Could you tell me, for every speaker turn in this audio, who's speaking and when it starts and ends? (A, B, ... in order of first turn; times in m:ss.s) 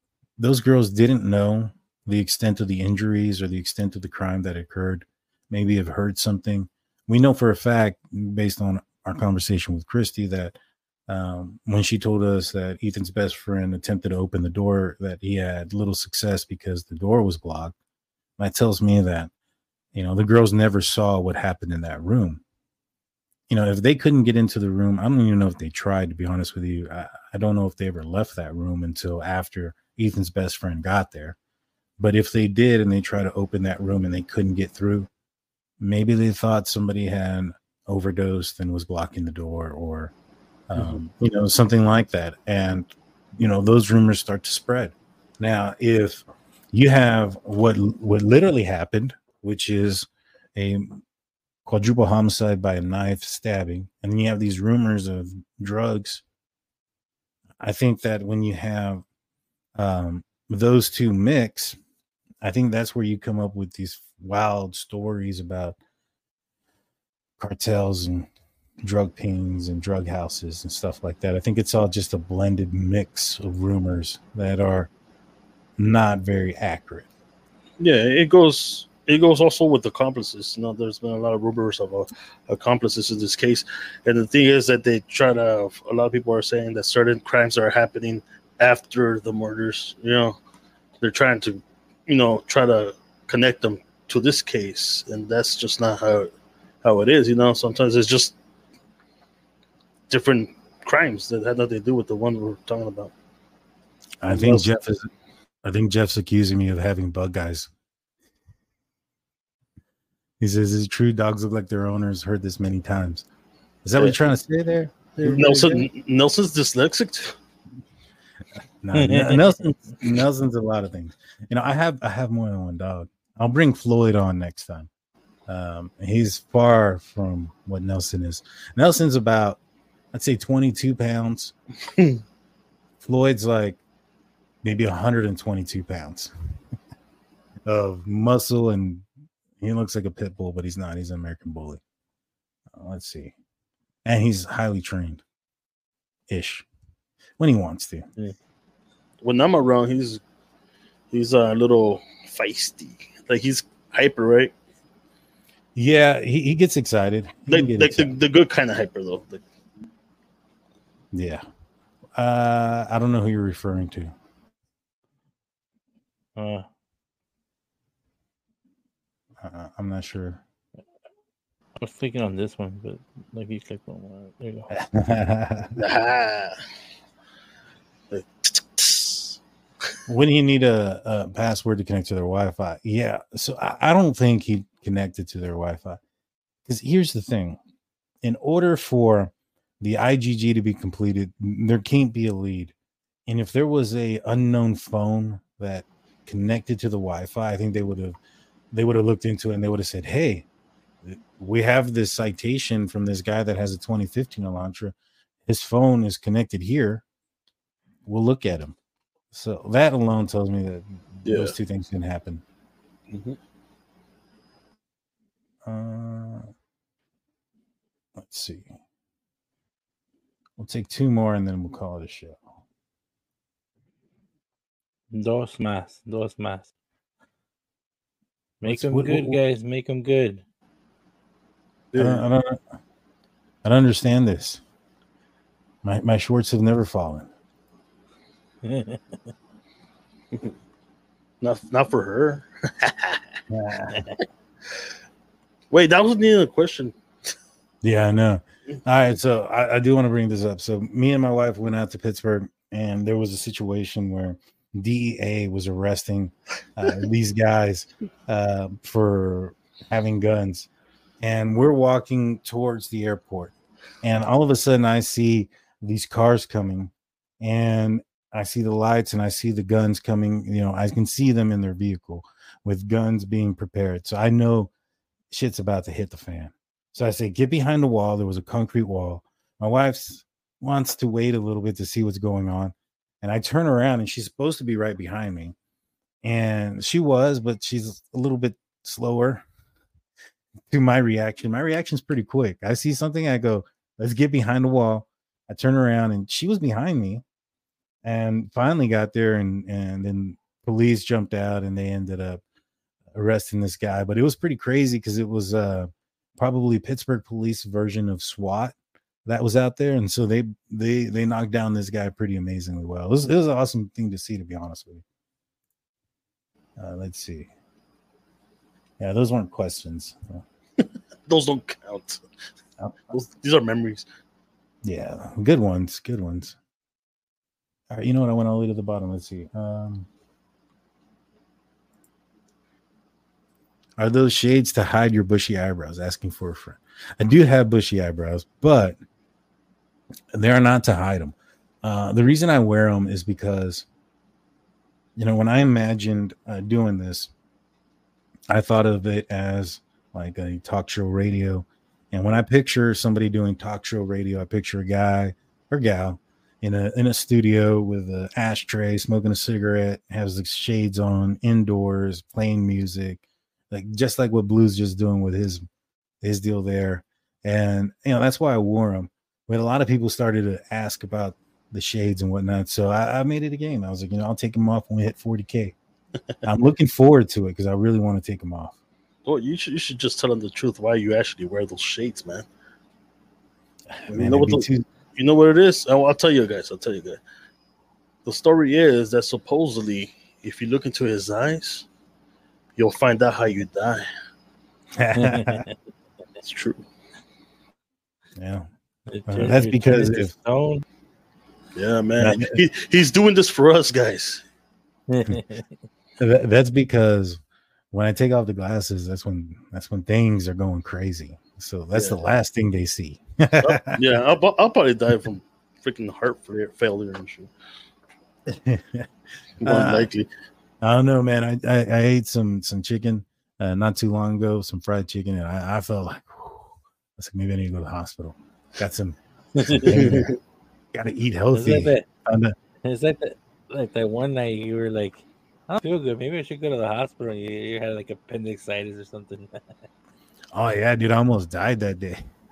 0:00.4-0:10.6 A
0:11.1-0:17.8 A
0:18.4-0:19.3 A
0:19.9-0:22.4 A
0:23.5-0:31.4 A
0:32.0-0:35.1 A
0:35.8-0:40.1 A
0:40.7-0:51.0 A
0:51.6-0:56.2 A
0:57.6-0:59.0 A
0:59.8-1:01.8 A
1:02.4-1:05.8 A
1:07.4-1:08.3 A
1:08.8-1:14.9 A
1:15.8-1:17.1 A
1:17.8-1:30.4 B
1:31.0-1:36.3 B
1:36.8-1:38.4 B
1:40.1-1:43.1 B
1:44.2-1:45.1 A
1:44.3-1:44.7 B
1:45.6-1:47.7 A
1:50.4-1:53.3 A
1:53.8-1:55.9 A
1:55.2-1:57.4 B
1:58.8-2:04.9 A
1:58.9-1:59.6 C
2:05.5-2:09.6 A
2:10.1-2:11.5 A
2:11.9-2:12.2 B
2:13.0-2:13.8 A
2:14.6-2:16.3 A
2:17.7-2:19.0 A
2:19.6-2:21.8 A
2:22.7-2:23.4 A
2:24.0-2:25.2 A
2:26.3-2:26.7 A
2:27.4-2:28.1 A
2:29.2-2:30.2 B
2:31.1-2:34.5 B
2:35.8-2:38.1 A
2:37.5-2:39.4 B
2:41.1-2:41.4 A
2:42.2-2:44.1 A
2:46.4-2:46.7 C
2:49.4-2:50.4 A
2:51.8-2:54.7 C
2:54.7-2:55.8 A
2:55.8-2:56.6 B
2:58.1-2:59.4 B
3:00.1-3:06.0 A
3:06.6-3:07.6 A
3:08.2-3:12.7 A
3:13.3-3:18.2 A
3:18.7-3:20.5 A
3:21.0-3:25.0 A
3:25.5-3:27.0 A
3:28.1-3:28.8 A
3:29.3-3:32.4 A
3:31.3-3:31.6 B
3:33.1-3:33.4 B
3:35.6-3:36.5 A
3:38.2-3:38.7 A
3:40.6-3:42.4 A
3:45.1-3:46.7 C
3:48.6-3:50.4 C
3:48.6-3:49.4 A
3:51.9-3:52.2 B
3:52.0-3:52.6 A
3:53.6-3:54.6 A
3:55.8-3:57.3 A
3:58.6-3:59.3 C
4:01.4-4:03.3 B
4:03.5-4:04.1 A
4:03.9-4:04.2 B
4:05.7-4:07.0 B
4:07.8-4:20.7 A
4:21.2-4:34.7 A
4:35.3-4:45.6 A
4:46.2-4:49.4 A
4:50.7-4:57.2 A
4:58.0-5:02.4 A
5:03.1-5:15.0 A
5:16.8-5:17.5 A
5:19.0-5:20.4 A
5:21.3-5:22.2 B
5:23.1-5:24.1 B
5:24.8-5:26.6 A
5:27.9-5:30.1 A
5:34.0-5:39.0 A
5:40.3-5:43.9 A
5:45.2-5:47.3 A
5:48.5-6:05.6 A
6:06.2-6:15.8 A
6:16.4-6:18.8 A
6:19.2-6:22.5 B
6:24.0-6:24.8 A
6:24.1-6:27.2 B
6:28.2-6:31.9 B
6:32.8-6:34.1 B
6:35.0-6:35.6 A
6:35.2-6:35.7 C
6:36.4-6:36.8 B
6:38.4-6:38.7 A
6:39.1-6:40.8 C
6:39.3-6:40.3 A
6:41.7-6:44.4 B
6:42.2-6:42.6 A
6:45.1-6:45.7 C
6:46.2-6:47.4 A
6:47.9-6:54.0 A
6:53.6-6:57.5 B
6:58.5-6:59.1 A
6:59.6-7:00.1 A
6:59.6-7:00.3 B
7:00.8-7:10.3 A
7:09.6-7:10.1 C
7:09.9-7:10.3 B
7:10.9-7:12.6 A
7:11.5-7:12.1 C
7:12.8-7:19.6 C
7:20.5-7:22.2 A